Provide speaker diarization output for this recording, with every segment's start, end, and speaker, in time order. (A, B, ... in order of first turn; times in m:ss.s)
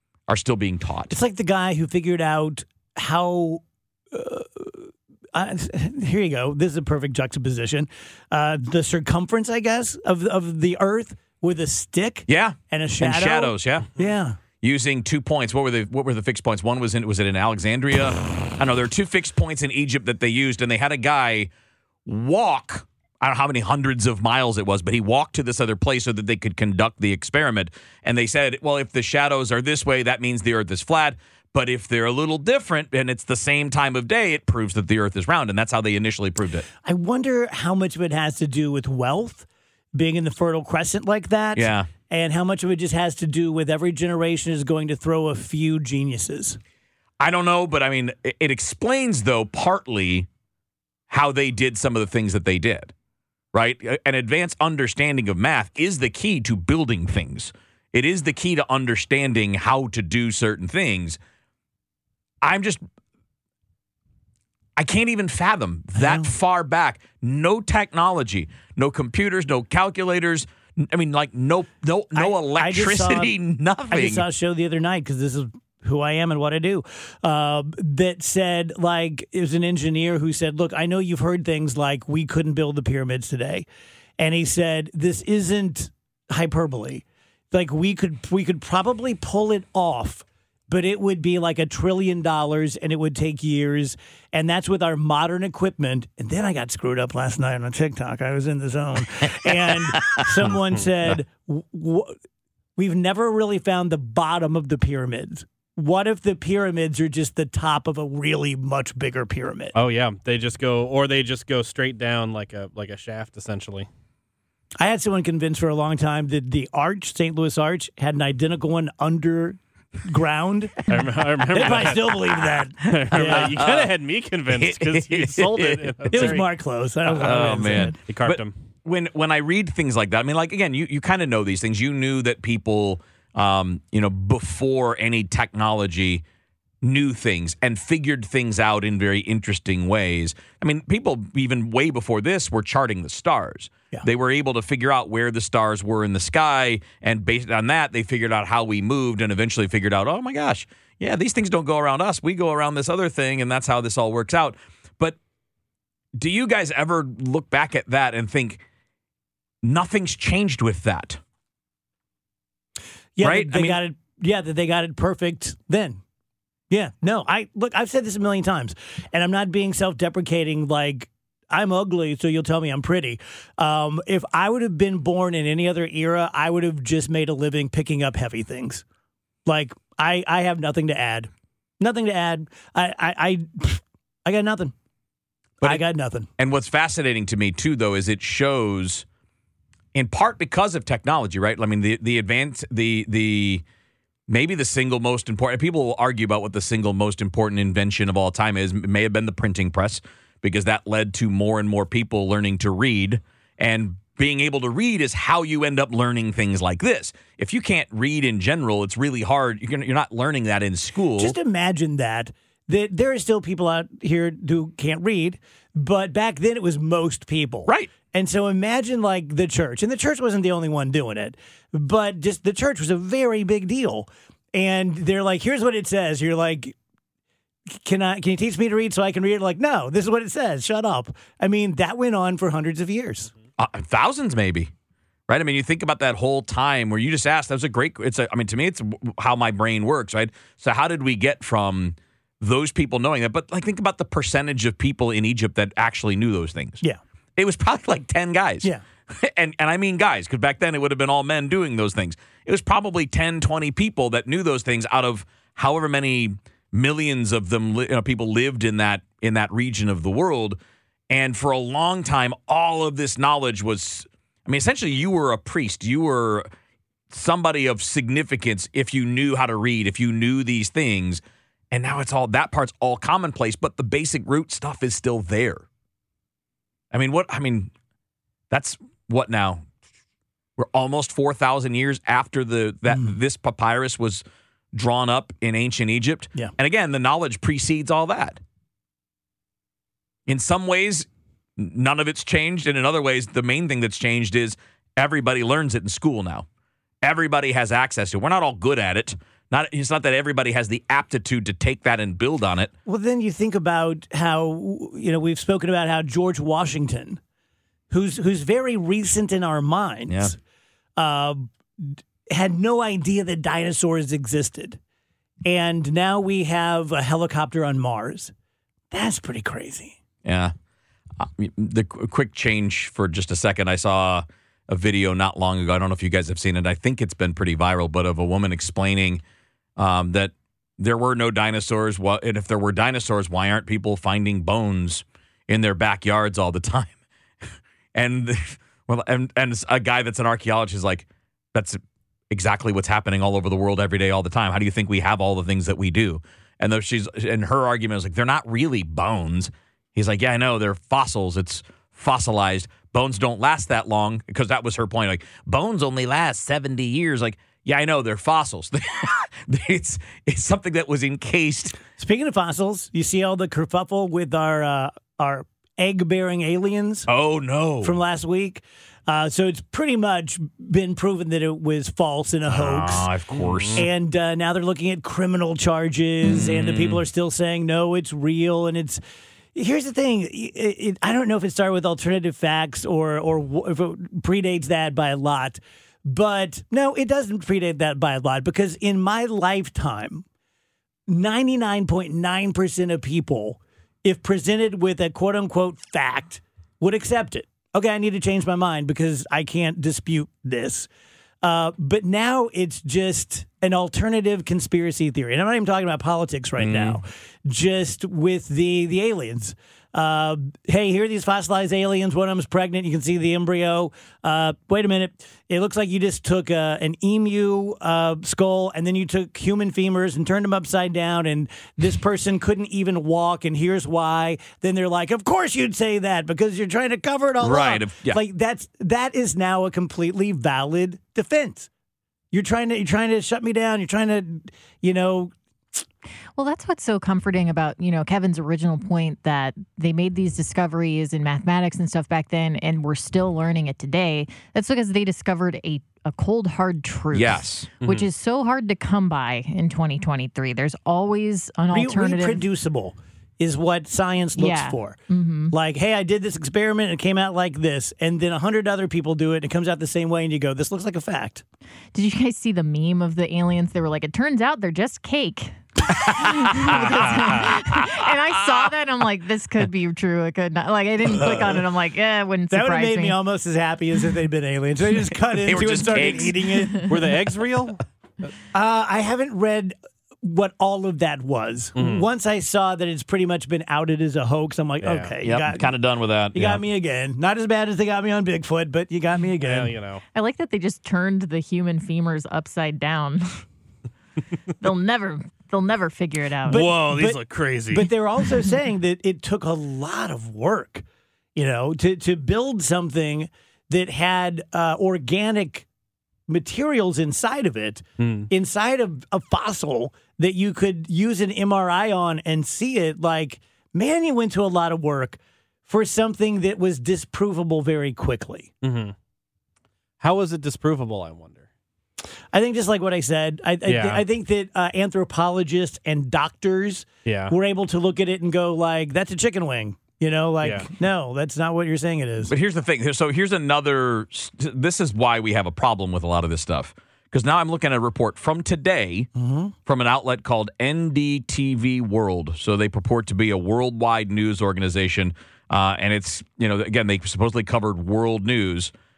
0:00.3-0:01.1 A
0:01.1-0:14.4 B
0:12.3-0:13.9 A
0:14.6-0:21.5 A
0:22.0-0:36.7 A
0:36.8-0:46.6 B
0:41.5-0:41.9 A
0:47.2-0:50.3 A
0:51.1-0:52.9 A
0:53.5-1:01.2 A
1:02.4-1:02.8 A
1:04.8-1:14.3 A
1:06.0-1:06.3 B
1:12.1-1:13.3 B
1:13.9-1:23.7 B
1:24.2-1:42.2 B
1:42.8-1:49.7 B
1:49.7-1:53.9 C
1:54.8-2:00.9 B
2:00.9-2:02.2 C
2:01.5-2:03.6 B
2:02.8-2:06.5 C
2:03.2-2:03.9 A
2:04.5-2:06.4 A
2:06.1-2:08.0 B
2:07.2-2:16.2 A
2:07.2-2:08.5 C
2:16.8-2:35.2 A
2:36.2-2:38.6 A
2:39.6-2:41.2 A
2:43.2-2:46.0 B
2:43.2-2:43.8 A
2:46.7-2:58.8 B
2:59.4-3:04.7 B
3:05.6-3:06.3 B
3:06.4-3:09.0 A
3:09.9-3:13.6 A
3:14.3-3:31.4 A
3:31.2-3:46.7 B
3:47.7-3:53.3 B
3:53.6-3:54.7 A
3:55.3-4:06.8 A
4:07.4-4:20.6 A
4:21.1-4:26.5 A
4:27.1-4:35.6 A
4:36.9-4:37.7 A
4:38.5-4:39.6 A
4:40.6-4:48.4 A
4:50.3-4:51.1 A
4:51.6-4:56.4 A
4:57.0-5:02.7 A
5:02.8-5:07.2 B
5:07.9-5:10.4 B
5:10.1-5:10.3 A
5:11.0-5:14.8 B
5:15.4-5:18.3 B
5:18.9-5:20.0 B
5:20.2-5:20.5 A
5:21.2-5:29.2 A
5:29.8-5:36.9 A
5:37.9-5:41.8 A
5:42.3-6:01.8 A
6:02.0-6:07.1 B
6:07.1-6:08.0 A
6:07.8-6:13.1 B
6:12.5-6:13.9 A
6:13.4-6:13.8 C
6:13.8-6:19.0 B
6:16.2-6:17.0 A
6:19.5-6:30.2 B
6:31.1-6:40.9 B
6:41.4-7:11.7 B
6:46.6-6:47.0 A
7:07.4-7:08.2 A
7:12.3-7:15.3 B
7:16.4-7:32.4 D
7:27.1-7:27.7 A
7:27.8-7:28.1 C
7:31.7-7:35.0 B
7:34.4-7:35.5 D
7:35.5-7:41.4 B
7:41.9-7:53.2 D
7:45.9-7:48.0 A
7:52.5-7:57.1 B
7:55.4-7:56.4 A
7:56.8-7:57.8 C
7:58.5-8:05.7 B
8:01.7-8:02.1 C
8:04.8-8:05.2 C
8:05.2-8:06.6 A
8:06.3-8:09.7 B
8:09.4-8:10.0 C
8:10.1-8:13.4 D
8:14.6-8:16.7 D
8:16.5-8:17.9 C
8:16.5-8:20.8 B
8:21.4-8:25.6 B
8:26.3-8:38.5 B
8:28.0-8:28.3 C
8:38.6-8:38.9 C
8:40.0-8:41.4 C
8:42.3-8:52.3 B
8:43.6-8:44.0 C
8:47.0-8:47.3 C
8:50.4-8:50.7 C
8:52.2-8:59.1 A
8:59.2-8:59.5 B
8:59.6-9:08.7 A